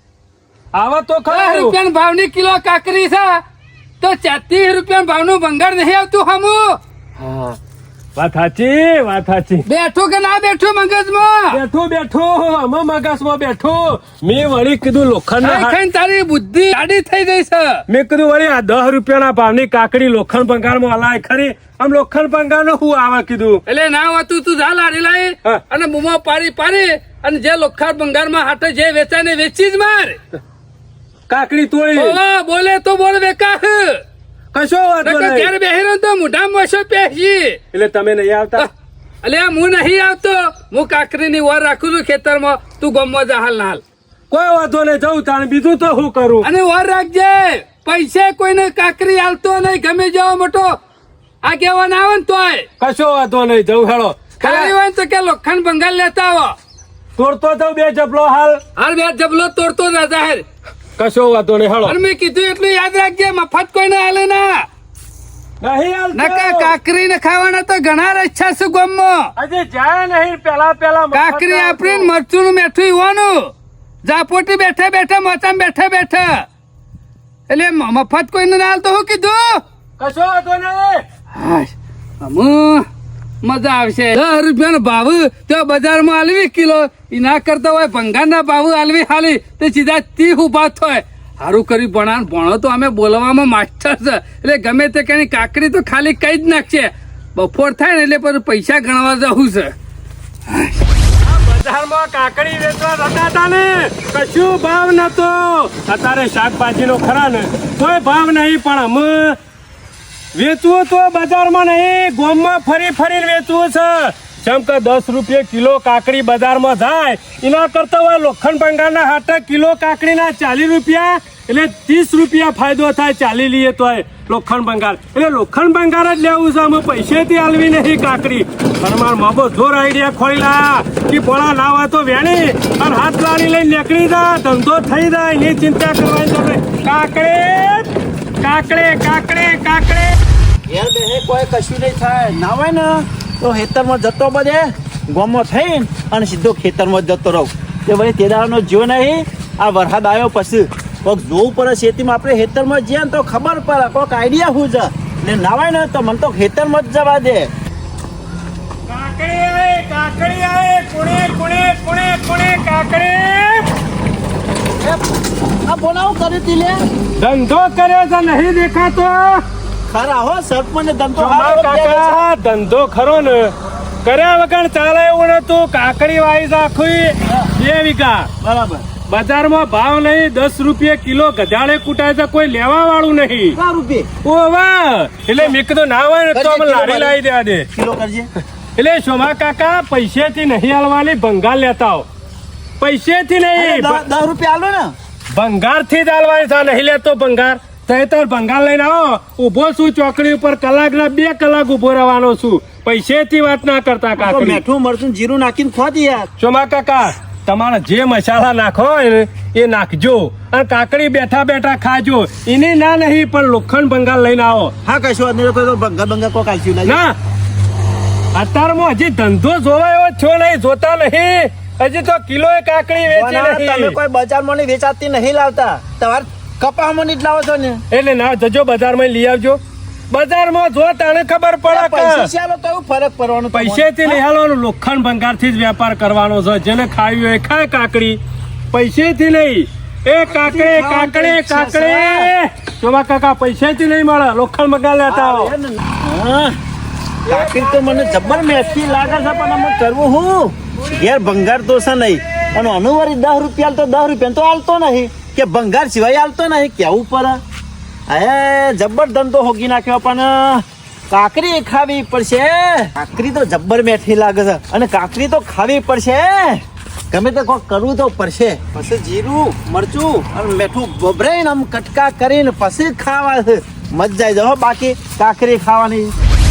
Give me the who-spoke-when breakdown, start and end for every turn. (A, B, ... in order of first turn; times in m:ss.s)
0:00.7-0:01.7 A
0:01.3-0:03.4 B
0:04.0-0:06.8 B
0:07.2-0:07.6 A
0:08.2-0:09.6 A
0:09.7-0:11.6 B
0:11.5-0:15.8 A
0:15.4-0:17.8 B
0:17.9-0:23.6 A
0:23.7-0:30.2 B
0:31.3-0:32.2 A
0:32.0-0:34.0 B
0:34.5-0:35.5 A
0:35.0-0:37.6 B
0:37.7-0:38.7 A
0:39.2-0:43.8 B
0:44.3-0:46.5 A
0:46.4-0:50.8 B
0:51.4-0:52.7 B
0:52.8-0:54.7 A
0:54.4-0:56.6 B
0:57.2-0:58.6 A
0:58.8-1:00.4 B
1:01.0-1:02.0 A
1:01.8-1:04.7 B
1:05.6-1:06.7 A
1:06.2-1:09.3 B
1:09.4-1:12.1 A
1:11.1-1:13.5 B
1:14.0-1:16.4 B
1:17.5-1:19.6 B
1:20.0-1:21.0 A
1:21.3-1:22.9 B
1:23.4-1:39.7 B
1:41.2-1:49.4 A
1:50.3-2:17.9 A
2:18.4-2:20.2 A
2:20.7-2:37.5 C
2:38.9-2:43.7 A
2:45.7-2:46.8 C
2:47.2-2:49.4 A
2:49.9-2:52.2 C
2:51.2-2:53.5 A
2:54.0-2:58.3 A
2:58.4-2:58.9 C
2:59.1-3:03.6 A
3:03.6-3:04.1 C
3:04.2-3:07.7 A
3:06.3-3:07.2 C
3:07.8-3:08.3 C
3:08.8-3:12.1 A
3:12.8-3:14.0 A
3:13.6-3:14.9 C
3:15.3-3:24.6 A
3:24.2-3:26.3 C
3:26.4-3:34.7 A
3:34.8-3:37.0 C
3:36.9-3:37.2 A
3:38.4-3:44.0 A
3:43.1-3:47.8 C
3:47.9-3:49.6 A
3:50.1-3:52.3 A
3:51.7-3:54.2 C
3:53.5-3:58.2 A
3:58.7-4:05.5 A
4:00.3-4:02.3 C
4:05.1-4:06.6 C
4:07.3-4:17.4 C
4:07.3-4:09.8 A
4:10.8-4:11.3 A
4:18.1-4:36.2 C